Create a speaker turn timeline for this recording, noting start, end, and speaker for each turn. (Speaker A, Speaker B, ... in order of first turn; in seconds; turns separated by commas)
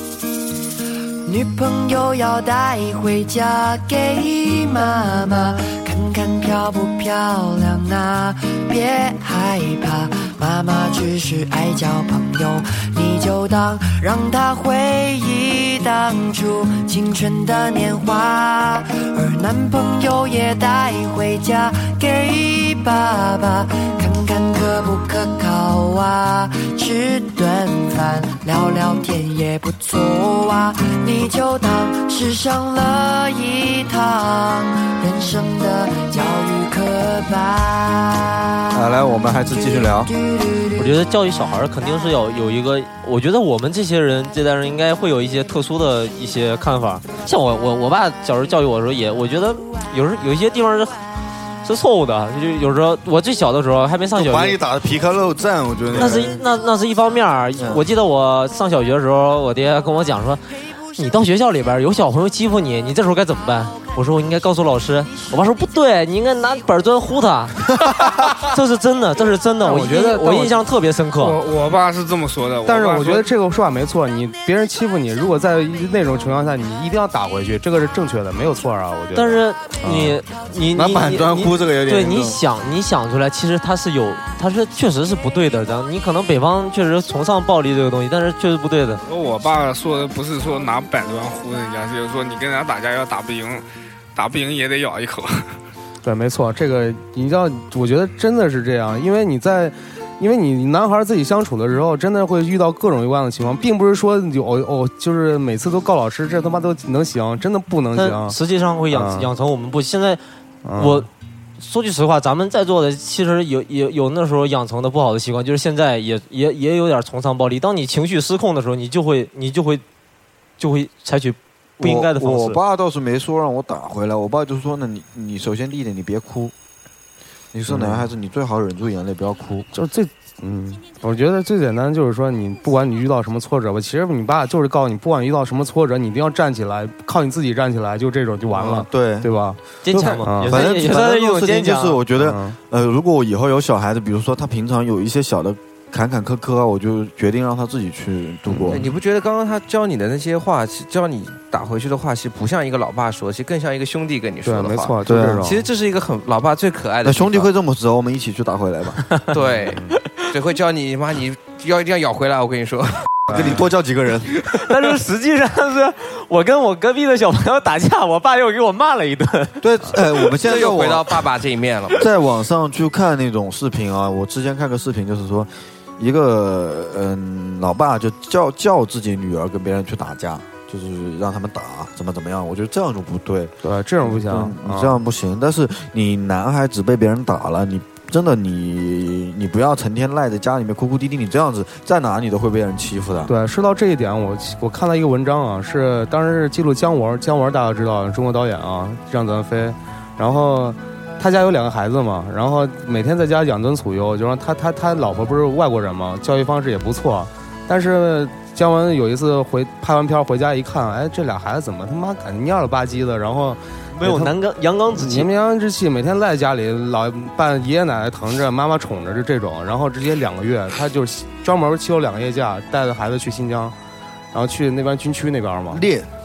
Speaker A: 1.2-38.9, Speaker B: 38.7-40.1, Speaker A: 39.5-41.0, Speaker C: 40.8-51.0, Speaker C: 51.6-54.6, Speaker B: 54.1-56.5, Speaker C: 55.9-67.6, Speaker B: 57.6-57.8, Speaker C: 68.3-71.4, Speaker D: 69.6-70.6, Speaker E: 71.2-73.3, Speaker D: 72.7-80.2, Speaker C: 79.1-89.0, Speaker B: 80.7-82.4, Speaker E: 89.0-95.3, Speaker D: 96.0-108.4, Speaker C: 108.0-110.2, Speaker D: 108.9-109.3, Speaker D: 110.7-111.1, Speaker C: 110.8-111.1, Speaker C: 111.6-119.8, Speaker C: 120.6-122.6, Speaker B: 121.8-126.5, Speaker B: 127.5-129.7, Speaker D: 127.7-128.0, Speaker D: 129.7-140.6, Speaker B: 138.5-139.3, Speaker C: 139.8-142.0, Speaker B: 139.9-148.9, Speaker D: 142.2-142.6, Speaker F: 148.7-157.5, Speaker D: 154.4-155.6, Speaker B: 155.1-155.5, Speaker B: 157.0-159.0, Speaker F: 159.3-163.1, Speaker D: 159.6-159.9, Speaker D: 163.3-163.6, Speaker B: 163.3-164.4, Speaker C: 164.6-169.6, Speaker B: 169.6-171.2, Speaker F: 170.4-172.1, Speaker B: 171.9-193.3, Speaker D: 183.6-184.9, Speaker D: 193.3-214.4, Speaker C: 213.9-215.3, Speaker D: 214.9-223.8, Speaker D: 224.3-225.8, Speaker B: 225.7-226.1